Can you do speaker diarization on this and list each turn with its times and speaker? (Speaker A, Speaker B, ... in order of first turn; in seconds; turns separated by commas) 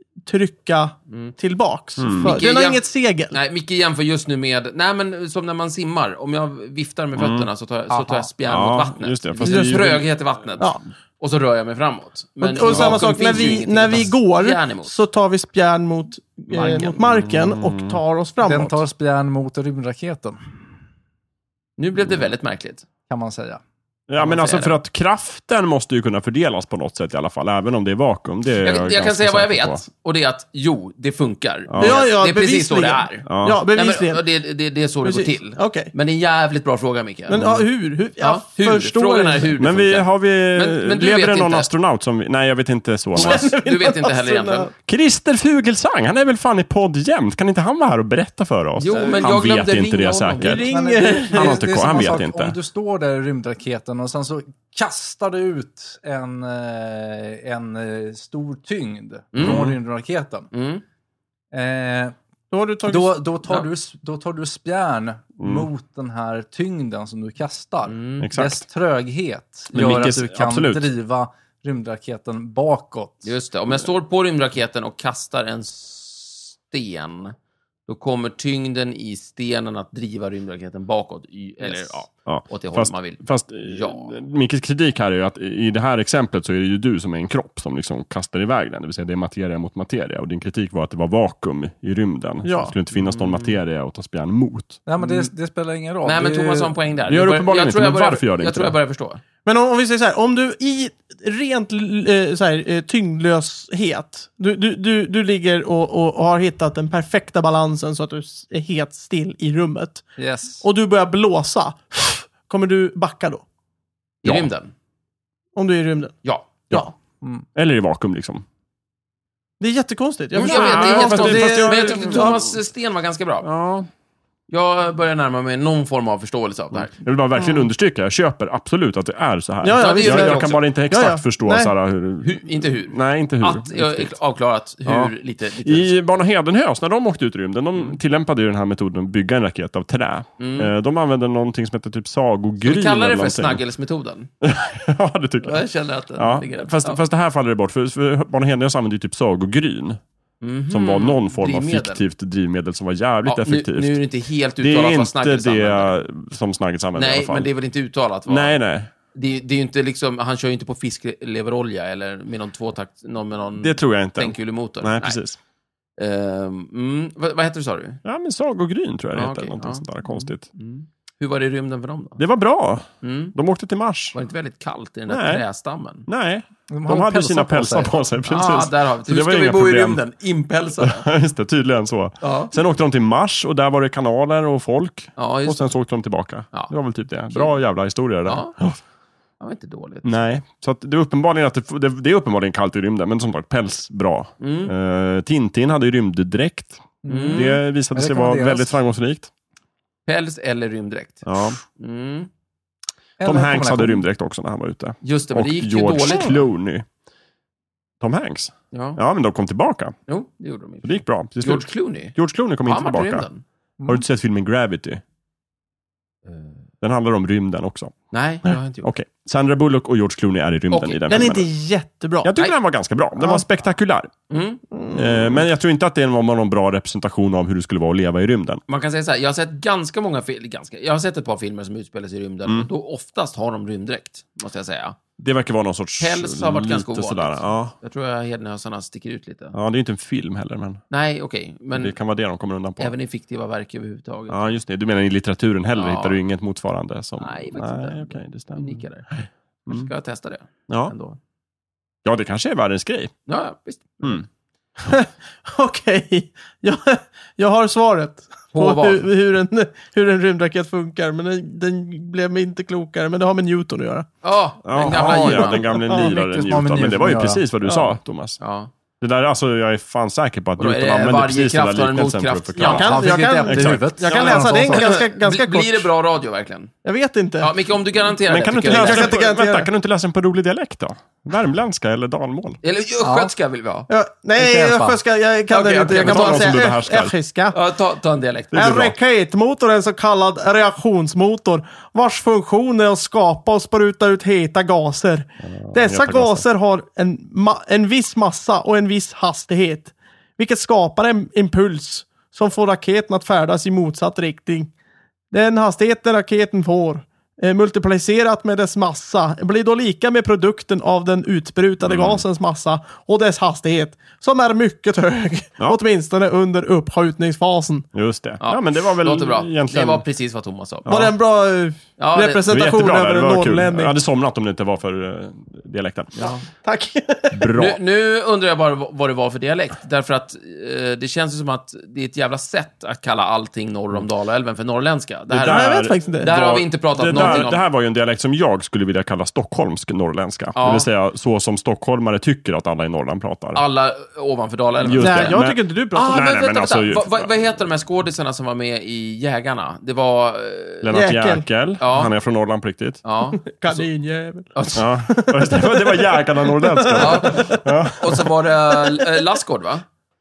Speaker A: 0.2-3.4, Speaker B: 2.0-2.4, Speaker C: 2.2-2.8, Speaker C: 3.3-15.0, Speaker B: 7.2-7.5, Speaker D: 7.9-8.3, Speaker B: 8.5-10.0, Speaker A: 9.4-10.0, Speaker A: 12.4-18.8, Speaker D: 12.7-13.4, Speaker C: 16.5-17.0, Speaker B: 17.1-18.0, Speaker D: 18.4-20.5, Speaker C: 21.8-22.9, Speaker D: 23.1-23.6, Speaker B: 24.1-29.9, Speaker C: 24.2-24.8, Speaker C: 28.6-37.4, Speaker B: 31.7-32.0, Speaker A: 31.8-34.2, Speaker B: 33.3-33.6, Speaker A: 35.0-35.9, Speaker A: 37.3-39.5, Speaker B: 37.4-37.6, Speaker C: 38.2-41.7, Speaker B: 39.6-43.5, Speaker C: 43.2-44.7, Speaker A: 43.2-44.7, Speaker B: 44.9-50.7, Speaker C: 48.8-50.7, Speaker A: 50.4-52.2, Speaker D: 50.7-60.5, Speaker B: 51.3-52.6, Speaker C: 59.3-59.7, Speaker B: 59.4-59.8, Speaker C: 60.5-60.8, Speaker D: 61.5-62.1, Speaker A: 62.5-63.2, Speaker D: 62.9-73.3, Speaker B: 65.4-65.7, Speaker C: 67.9-68.3, Speaker B: 68.2-68.6, Speaker B: 69.7-70.9, Speaker C: 73.2-77.3, Speaker C: 77.9-84.1, Speaker B: 82.3-94.8, Speaker A: 92.4-92.8, Speaker C: 93.0-93.6, Speaker D: 94.9-96.7, Speaker C: 95.0-95.3, Speaker C: 96.0-99.2, Speaker B: 97.1-98.8, Speaker A: 99.5-110.1, Speaker D: 110.2-110.6, Speaker A: 110.6-113.4, Speaker C: 114.2-114.7, Speaker A: 115.6-116.2, Speaker B: 117.5-118.5, Speaker A: 119.6-122.4, Speaker B: 120.3-122.5, Speaker C: 120.4-123.5, Speaker B: 123.4-123.9, Speaker C: 124.5-126.9, Speaker B: 126.7-134.2, Speaker A: 129.6-131.7, Speaker C: 129.8-130.6, Speaker C: 132.2-135.9, Speaker B: 134.8-143.6, Speaker C: 140.4-140.7, Speaker C: 142.6-144.3, Speaker B: 144.4-145.7, Speaker C: 145.4-147.0, Speaker B: 146.2-150.0, Speaker C: 150.4-152.0, Speaker B: 150.7-154.0, Speaker C: 153.2-155.9, Speaker B: 154.6-157.5, Speaker C: 156.9-158.6, Speaker B: 158.3-158.9, Speaker C: 159.1-165.2, Speaker B: 163.6-165.4, Speaker C: 166.0-168.0, Speaker B: 168.0-170.4, Speaker C: 169.1-172.2, Speaker B: 172.2-174.2, Speaker C: 173.0-173.3, Speaker C: 174.1-176.1, Speaker B: 175.1-175.4, Speaker B: 176.1-180.0, Speaker D: 176.7-178.7, Speaker C: 178.3-181.1, Speaker B: 180.8-188.8, Speaker C: 182.2-182.5, Speaker C: 185.2-185.7, Speaker C: 187.3-187.6, Speaker C: 188.3-188.5, Speaker C: 189.4-190.1, Speaker B: 190.0-199.3, Speaker C: 194.4-194.7, Speaker D: 197.0-198.8, Speaker C: 197.1-197.6, Speaker C: 200.1-202.3, Speaker B: 201.2-201.6, Speaker D: 203.2-204.1, Speaker B: 203.2-206.9, Speaker C: 205.0-206.5, Speaker B: 208.0-209.9, Speaker C: 208.7-209.0, Speaker C: 210.1-213.4, Speaker B: 210.8-213.2, Speaker B: 213.9-215.0, Speaker C: 216.3-216.5, Speaker B: 216.8-217.9, Speaker C: 218.1-218.9, Speaker B: 218.4-221.5, Speaker C: 220.7-221.3, Speaker A: 221.1-222.3, Speaker B: 222.2-224.1, Speaker A: 223.2-223.4, Speaker C: 224.3-224.6, Speaker A: 224.7-225.4, Speaker B: 224.9-228.6, Speaker C: 228.7-235.0, Speaker B: 235.2-237.8, Speaker C: 236.0-239.6, Speaker B: 239.5-240.8, Speaker C: 240.9-241.9, Speaker B: 241.7-242.9, Speaker C: 242.8-244.5, Speaker B: 244.3-249.9, Speaker C: 245.8-246.2, Speaker C: 247.2-249.1, Speaker C: 249.7-251.2, Speaker B: 250.7-250.9, Speaker B: 252.1-253.1, Speaker C: 253.3-254.2, Speaker A: 254.8-264.1, Speaker C: 258.5-259.1, Speaker C: 264.2-265.8, Speaker B: 264.6-268.4, Speaker A: 265.2-266.1, Speaker D: 265.9-267.4, Speaker C: 268.4-268.7, Speaker B: 269.0-273.9, Speaker C: 270.6-273.0, Speaker A: 272.6-275.9, Speaker D: 272.7-274.9, Speaker C: 274.0-276.7, Speaker A: 276.8-277.5, Speaker C: 277.4-279.1, Speaker B: 278.3-282.6, Speaker A: 278.7-279.7, Speaker C: 282.6-283.9, Speaker D: 283.0-283.3, Speaker A: 283.9-287.6, Speaker D: 284.4-285.0, Speaker C: 285.5-286.6, Speaker B: 286.0-287.1, Speaker C: 287.5-288.6, Speaker B: 288.5-288.9, Speaker A: 288.5-304.7, Speaker B: 295.5-296.4, Speaker A: 305.3-317.9, Speaker B: 311.8-312.2, Speaker B: 317.9-320.0, Speaker C: 318.4-320.9, Speaker B: 320.9-321.1, Speaker A: 320.9-323.9, Speaker C: 322.0-322.4, Speaker B: 322.5-326.1, Speaker C: 326.2-326.4, Speaker A: 326.2-327.5, Speaker B: 327.3-327.8, Speaker C: 327.6-337.6, Speaker B: 335.3-335.9, Speaker A: 335.4-337.5, Speaker B: 337.0-343.6, Speaker C: 340.6-340.9, Speaker C: 343.5-345.4, Speaker B: 344.8-347.3, Speaker A: 345.0-346.3, Speaker C: 346.0-350.9, Speaker B: 350.8-353.0, Speaker A: 350.9-351.4, Speaker C: 351.8-352.1, Speaker C: 353.0-353.8, Speaker A: 353.4-357.6, Speaker C: 354.6-354.9, Speaker B: 354.8-358.3, Speaker C: 357.0-359.9